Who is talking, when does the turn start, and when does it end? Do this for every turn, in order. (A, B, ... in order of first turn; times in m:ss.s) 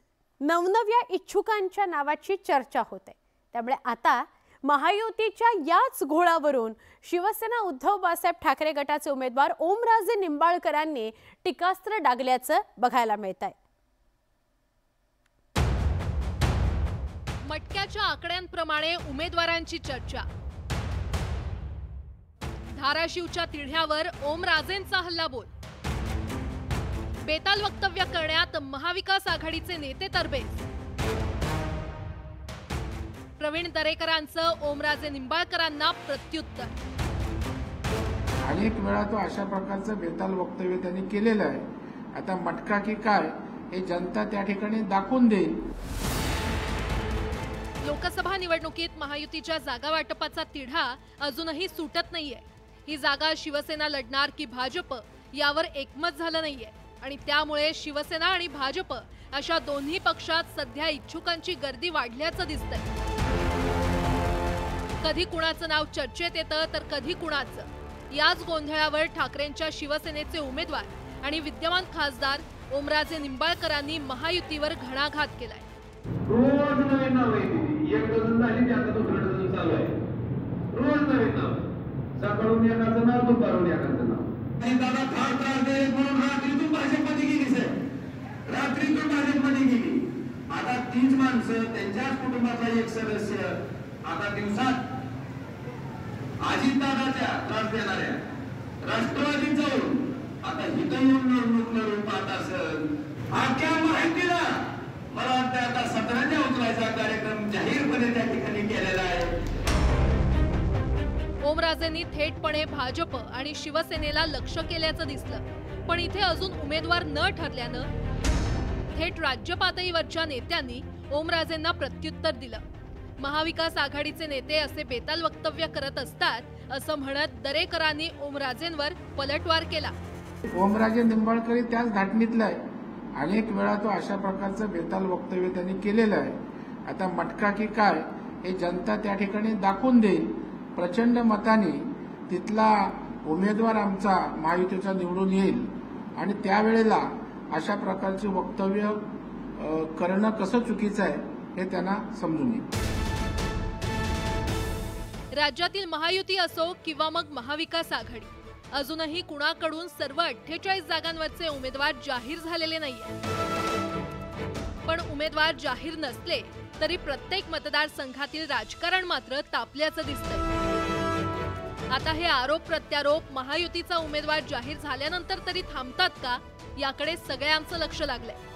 0:00.4-0:13.6 A
0:17.5-0:20.3 B
0:22.8-0:25.5 B
0:27.2-0:30.6 B
0:33.4-0:36.8 B
0:38.4-0:45.6 C
0:47.8-1:02.9 B
1:05.0-1:15.7 B
1:16.3-1:20.0 D
1:20.7-1:21.6 D
1:22.2-1:27.8 D
1:28.5-1:34.8 D
1:36.4-1:38.2 D
1:38.8-1:44.5 D
1:45.1-1:49.3 D
1:51.4-1:57.9 B
1:58.9-2:02.6 B
2:03.2-2:10.0 B
2:10.5-2:12.6 C
2:13.2-2:29.1 C
2:29.6-2:32.7 C
2:35.3-2:43.2 B
2:44.8-2:50.5 B
2:51.9-2:58.4 B